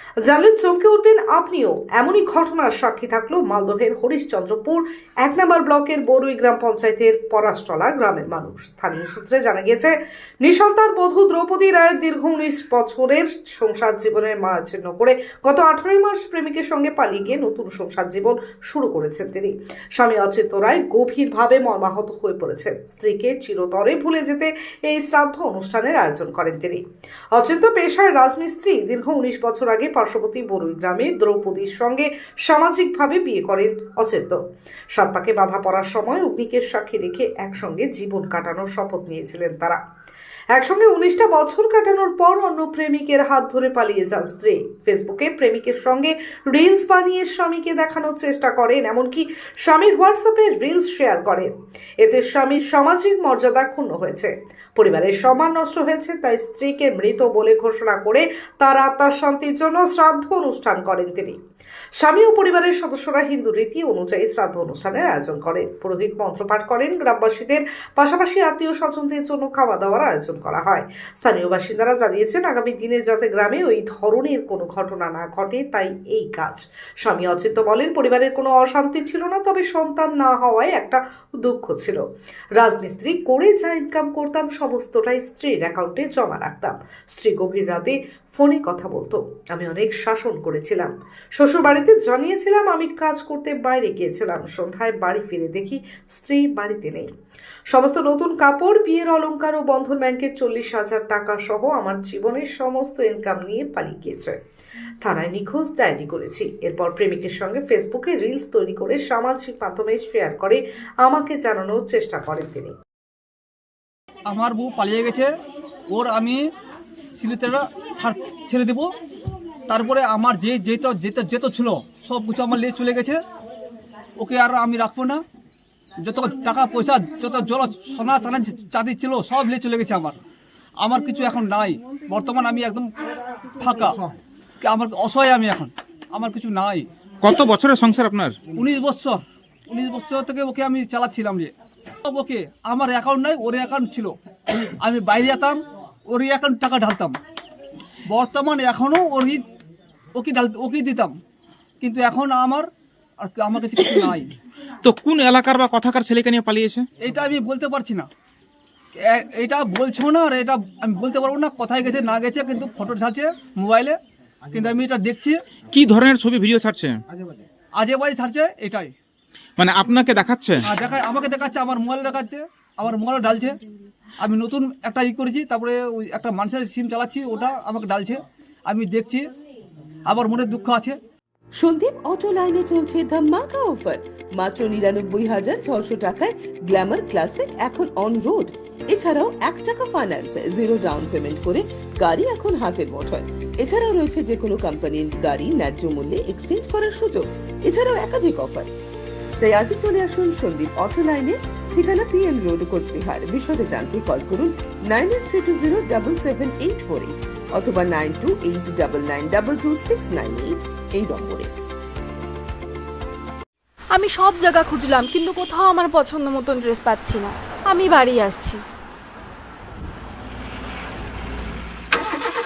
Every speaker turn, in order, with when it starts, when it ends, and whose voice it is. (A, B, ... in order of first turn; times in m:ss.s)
0:00.3-0:26.8 A
0:27.4-0:34.4 A
0:34.9-0:39.8 A
0:40.5-1:01.4 A
1:02.0-1:22.0 A
1:22.6-1:37.1 A
1:37.7-1:44.4 A
1:45.0-1:52.7 A
1:54.3-1:55.3 B
1:55.9-1:56.5 B
1:57.2-1:58.9 B
1:59.7-2:03.2 B
2:04.2-2:05.2 B
2:06.0-2:10.2 B
2:10.8-2:12.9 B
2:13.6-2:16.9 B
2:17.2-2:18.4 C
2:18.5-2:21.5 B
2:22.0-2:27.2 B
2:28.1-2:29.4 B
2:30.2-2:31.1 B
2:31.8-2:32.7 B
2:33.2-2:34.3 B
2:34.8-2:36.9 C
2:37.0-2:38.1 B
2:39.0-2:44.0 B
2:44.5-2:45.4 B
2:45.7-2:47.0 C
2:47.8-2:48.9 B
2:49.6-2:50.6 C
2:50.7-2:53.6 B
2:54.2-2:59.3 B
3:00.1-3:01.0 B
3:01.6-3:18.8 D
3:19.4-3:31.5 D
3:33.9-3:38.6 E